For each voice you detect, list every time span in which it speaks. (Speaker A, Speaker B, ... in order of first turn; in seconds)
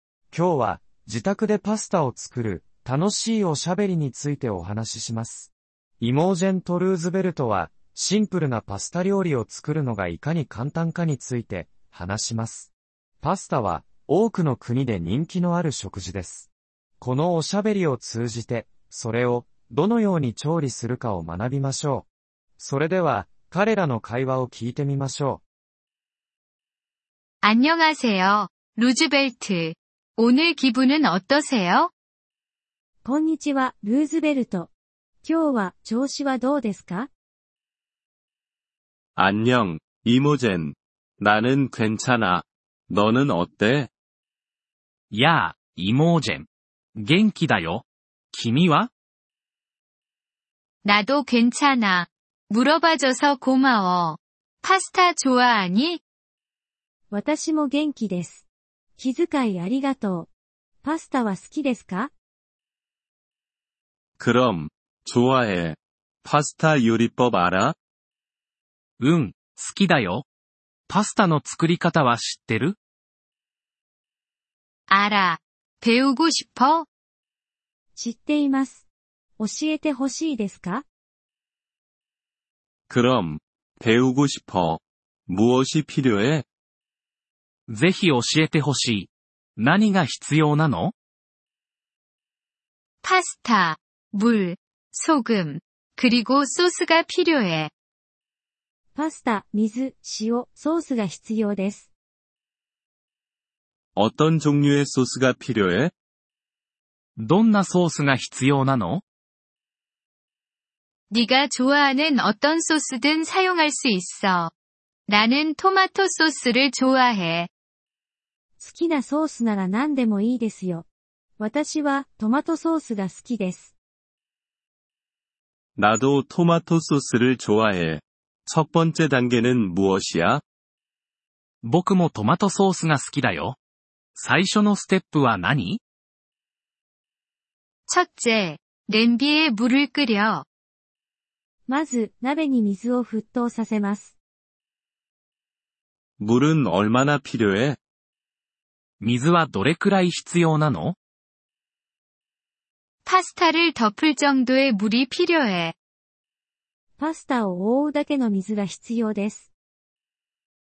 Speaker A: 0.3-16.5, 17.0-22.1, 22.6-25.4
Speaker B: 27.4-31.9, 50.8-56.0, 74.9-76.9, 93.0-97.7, 111.1-114.5, 115.1-117.5, 137.9-140.4, 153.0-155.7
Speaker C: 33.0-34.7, 35.2-37.1, 57.1-58.4, 59.0-60.3, 60.8-62.1, 78.0-78.8, 79.4-80.8, 98.9-101.9, 118.6-120.8, 121.4-123.7, 141.7-144.1, 157.0-159.5
Speaker D: 39.1-43.9, 64.2-67.8, 82.9-86.5, 104.0-105.9, 125.8-130.4, 146.2-147.8
Speaker E: 45.1-48.9, 69.0-70.2, 70.9-72.8, 87.7-90.9, 107.2-109.0, 131.6-133.6, 134.2-135.8, 149.0-150.9